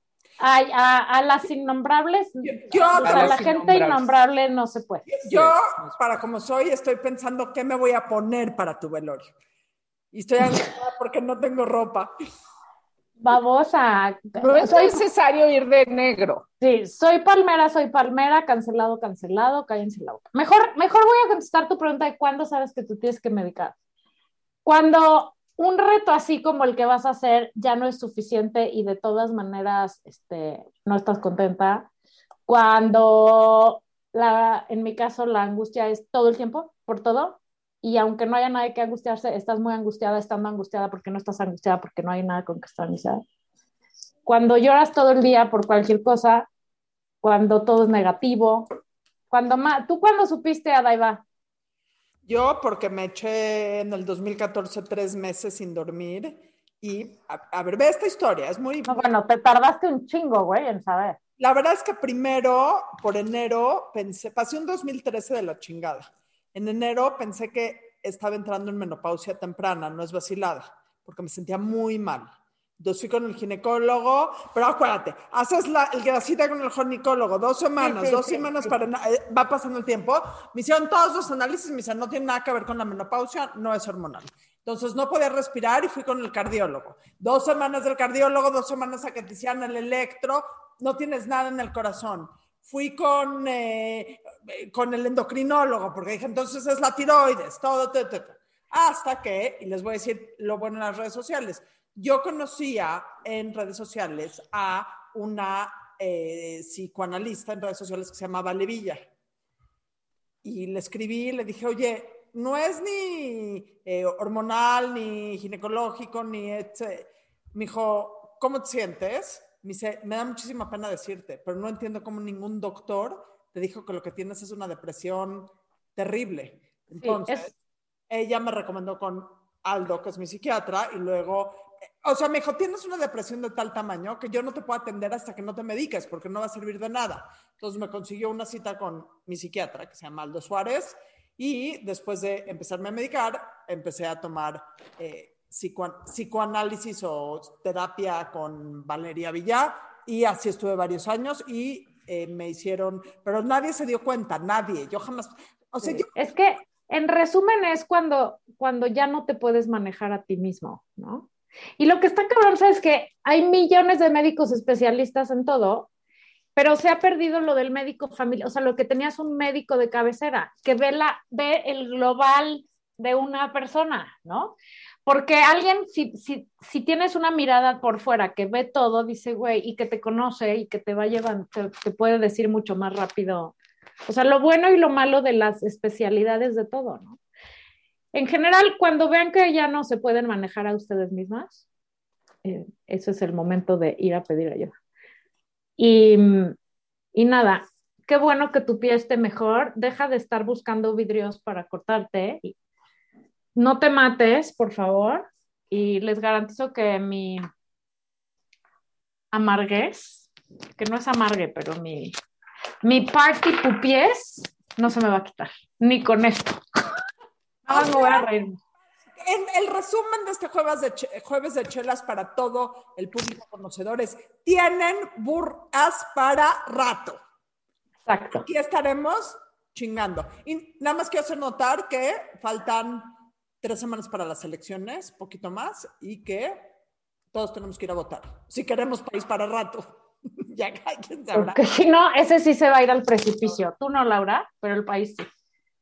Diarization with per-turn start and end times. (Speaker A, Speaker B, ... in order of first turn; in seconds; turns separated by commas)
Speaker A: 0.4-5.1, Speaker B: 2.4-3.4, Speaker C: 3.0-4.1, Speaker B: 5.1-9.3, Speaker C: 5.2-6.0, Speaker B: 10.1-12.1, Speaker A: 13.2-15.0, Speaker C: 14.4-16.4, Speaker A: 16.6-23.7, Speaker A: 24.6-31.9, Speaker A: 32.5-43.2, Speaker A: 44.2-46.5, Speaker A: 47.2-48.7, Speaker A: 49.3-51.2, Speaker B: 52.2-59.1, Speaker A: 58.9-61.2, Speaker B: 61.4-109.0, Speaker A: 77.8-78.7, Speaker B: 110.4-127.5, Speaker A: 127.0-127.5, Speaker B: 128.1-156.1, Speaker A: 156.1-165.9, Speaker A: 166.6-183.5, Speaker A: 184.1-187.2, Speaker A: 188.1-191.6, Speaker A: 192.4-194.7, Speaker A: 195.8-196.5, Speaker A: 197.1-202.5, Speaker A: 203.6-207.4, Speaker A: 209.3-212.1, Speaker A: 212.8-216.6, Speaker B: 217.7-218.3, Speaker A: 217.7-218.6, Speaker B: 219.1-227.2, Speaker A: 228.1-228.4, Speaker B: 228.4-233.1, Speaker B: 233.6-236.7, Speaker B: 237.3-239.9, Speaker B: 240.4-241.6, Speaker A: 241.3-245.3